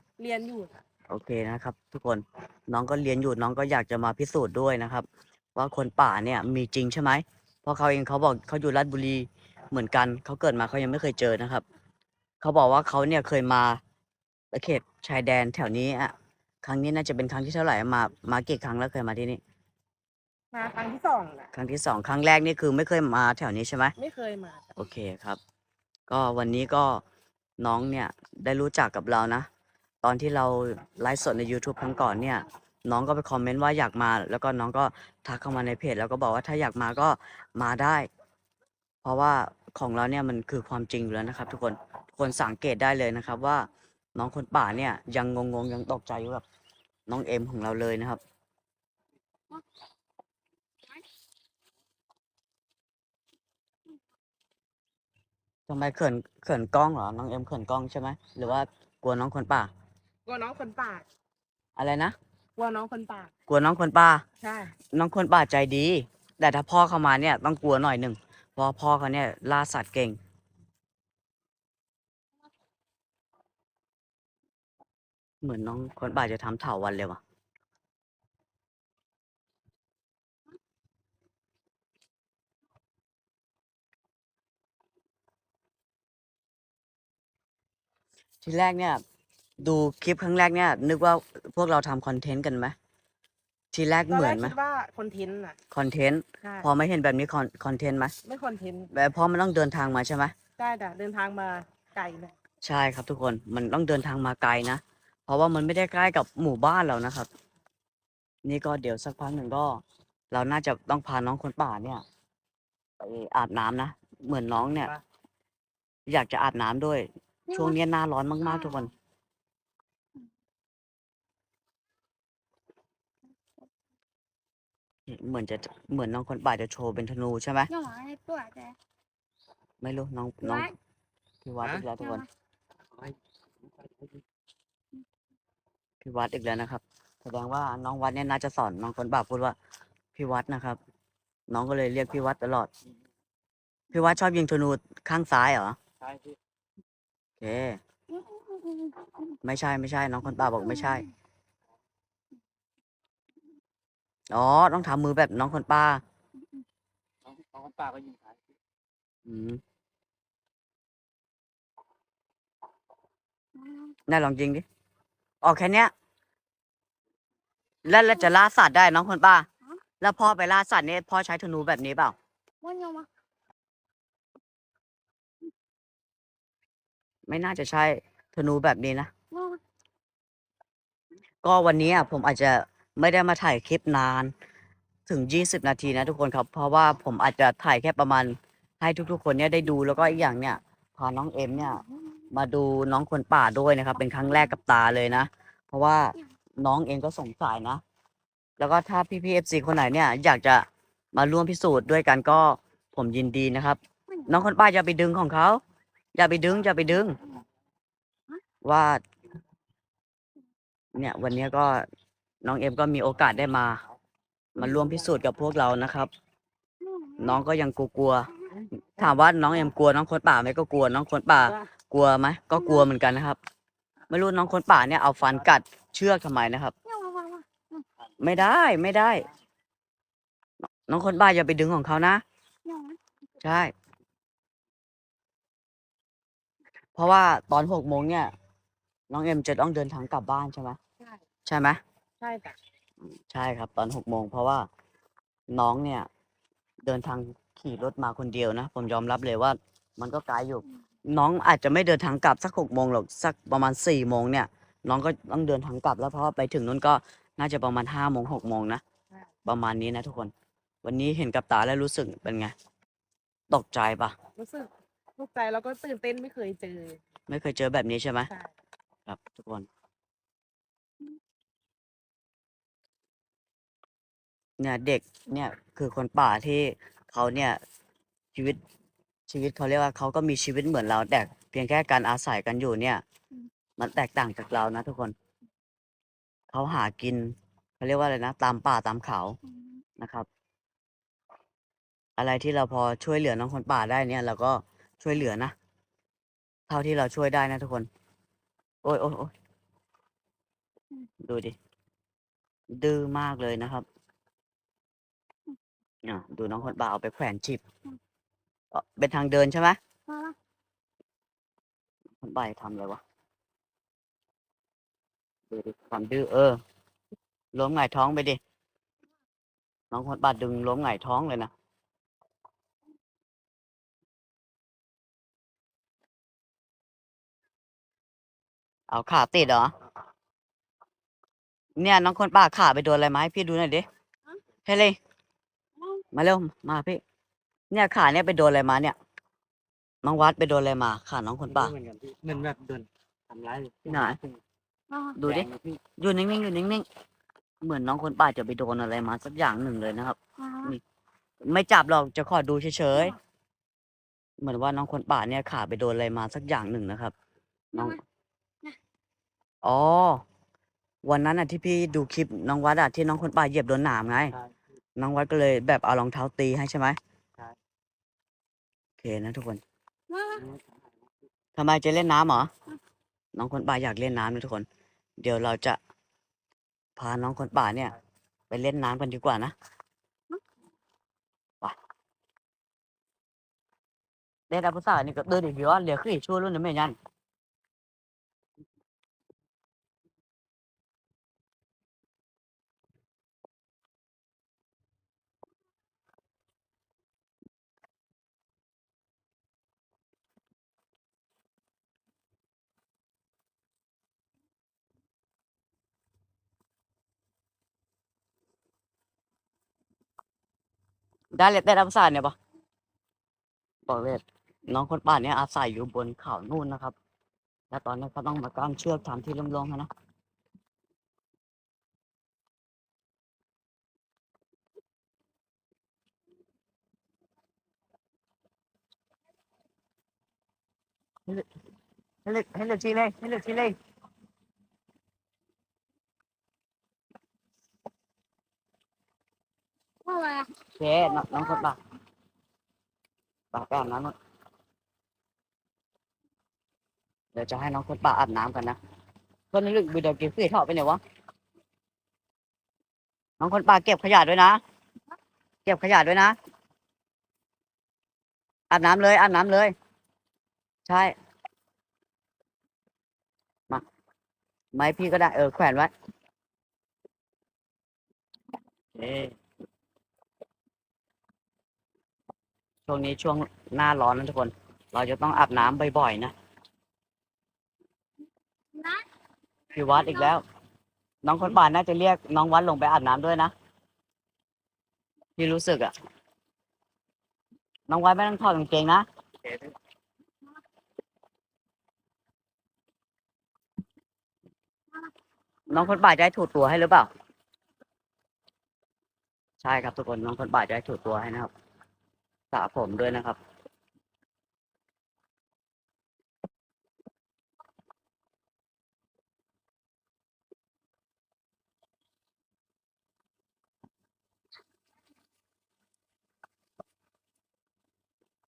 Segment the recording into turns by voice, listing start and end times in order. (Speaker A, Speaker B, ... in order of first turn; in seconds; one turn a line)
Speaker A: 0.2-0.8
Speaker B: 1.1-11.6
Speaker B: 12.4-13.8
Speaker B: 14.5-19.4
Speaker A: 20.5-21.5
Speaker B: 21.5-23.9
Speaker A: 24.0-24.7
Speaker B: 24.8-25.4
Speaker B: 26.1-27.0
Speaker B: 27.6-29.5
Speaker B: 30.0-38.1
Speaker B: 39.0-46.4
Speaker B: 47.1-48.2
Speaker B: 55.7-59.7
Speaker A: 60.2-61.0
Speaker B: 61.8-62.1
Speaker A: 62.6-63.3
Speaker B: 63.5-64.2
Speaker A: 64.4-64.7
Speaker B: 64.9-70.2
Speaker B: 75.4-77.2
Speaker B: 88.4-89.0
Speaker B: 89.6-92.7
Speaker B: 93.7-94.5
Speaker A: 94.1-95.6
Speaker B: 95.7-98.1
Speaker A: 96.4-96.7
Speaker A: 98.2-98.9
Speaker B: 98.9-100.3
Speaker A: 100.6-102.3
Speaker B: 102.6-107.3
Speaker B: 108.4-112.0
Speaker B: 113.0-114.9
Speaker C: 114.8-115.0
Speaker B: 116.1-118.9
Speaker D: 117.5-117.8
Speaker D: 118.4-118.9
Speaker B: 125.1-127.7
Speaker D: 127.7-128.8
Speaker B: 129.8-130.7
Speaker D: 130.4-130.7
Speaker B: 131.4-132.2
Speaker C: 131.6-131.9
Speaker D: 132.0-132.2
Speaker C: 132.9-134.2
Speaker B: 136.0-139.6
Speaker B: 140.1-140.8
Speaker B: 141.5-142.7
Speaker B: 143.9-145.8
Speaker C: 146.0-146.4
Speaker B: 147.4-147.8
Speaker D: 148.1-149.3
Speaker B: 149.4-151.0
Speaker D: 150.2-151.0
Speaker B: 154.3-156.0
Speaker C: 157.2-158.4
Speaker B: 159.2-159.6
Speaker D: 163.5-163.9
Speaker B: 164.1-164.6
Speaker B: 165.4-165.9
Speaker B: 167.8-169.5
Speaker B: 170.0-172.1
Speaker D: 172.6-173.1
Speaker B: 177.3-179.1
Speaker D: 179.3-179.6
Speaker B: 181.4-184.3
Speaker B: 185.1-197.8
Speaker B: 198.6-205.6
Speaker B: 206.1-207.2
Speaker B: 208.6-209.0
Speaker B: 210.9-211.9
Speaker B: 212.4-213.8
Speaker B: 214.5-216.1
Speaker D: 216.8-217.4
Speaker B: 217.2-218.3
Speaker B: 219.0-223.4
Speaker B: 224.1-226.7
Speaker D: 226.8-227.8
Speaker B: 228.2-229.3
Speaker B: 230.9-232.2
Speaker D: 232.6-233.0
Speaker B: 233.4-233.7
Speaker B: 236.9-238.3
Speaker B: 239.1-240.8
Speaker B: 241.4-241.8
Speaker A: 242.2-242.6
Speaker B: 243.3-244.7
Speaker B: 245.5-246.1
Speaker B: 246.8-258.8
Speaker B: 259.4-260.3
Speaker B: 260.8-262.5
Speaker B: 263.5-264.1
Speaker A: 264.4-267.0
Speaker B: 267.3-268.3
Speaker B: 269.1-269.7
Speaker B: 274.6-277.6
Speaker B: 279.3-283.0
Speaker B: 283.8-285.1
Speaker B: 286.5-289.4
Speaker D: 289.5-289.8
Speaker B: 290.0-290.3
Speaker B: 292.2-295.5
Speaker B: 296.7-297.9
Speaker B: 298.8-299.3
Speaker B: 301.2-301.6
Speaker B: 302.7-303.9
Speaker B: 306.0-307.6
Speaker B: 308.7-309.8
Speaker D: 310.1-310.4
Speaker B: 312.2-313.0
Speaker B: 315.5-316.6
Speaker B: 317.5-318.4
Speaker B: 319.9-321.5
Speaker B: 328.9-329.7
Speaker B: 331.8-333.9
Speaker B: 334.6-335.0
Speaker D: 335.8-336.0
Speaker B: 336.1-337.0
Speaker B: 337.7-338.9
Speaker B: 340.0-341.7
Speaker C: 341.5-344.4
Speaker B: 343.9-344.2
Speaker D: 344.9-345.2
Speaker B: 345.2-346.8
Speaker C: 345.2-345.8
Speaker B: 347.6-350.8
Speaker D: 350.4-350.7
Speaker B: 351.4-353.1
Speaker B: 354.4-357.1
Speaker D: 357.7-358.0
Speaker B: 359.6-360.2
Speaker B: 361.0-364.3
Speaker B: 364.9-367.0
Speaker B: 369.0-369.6
Speaker D: 370.1-370.4
Speaker C: 370.4-370.8
Speaker B: 371.6-372.5
Speaker B: 373.3-374.6
Speaker B: 375.2-375.8
Speaker B: 377.0-377.9
Speaker B: 378.5-379.5
Speaker B: 384.5-386.9
Speaker B: 411.3-412.3
Speaker B: 413.9-416.9
Speaker B: 417.7-419.9
Speaker B: 432.2-433.8
Speaker D: 440.0-440.5
Speaker B: 440.8-441.8
Speaker D: 441.2-441.6
Speaker B: 443.5-444.1
Speaker B: 447.3-448.8
Speaker B: 449.5-451.0
Speaker B: 453.4-454.6
Speaker B: 455.6-456.4
Speaker B: 458.7-459.7
Speaker B: 460.9-461.1
Speaker B: 464.7-465.9
Speaker B: 468.9-469.3
Speaker B: 472.9-476.3
Speaker D: 478.7-479.0
Speaker B: 479.7-480.4
Speaker D: 480.0-480.3
Speaker B: 481.2-483.5
Speaker B: 485.4-485.9
Speaker B: 487.9-489.1
Speaker B: 495.7-497.1
Speaker B: 499.6-501.5
Speaker B: 502.5-503.4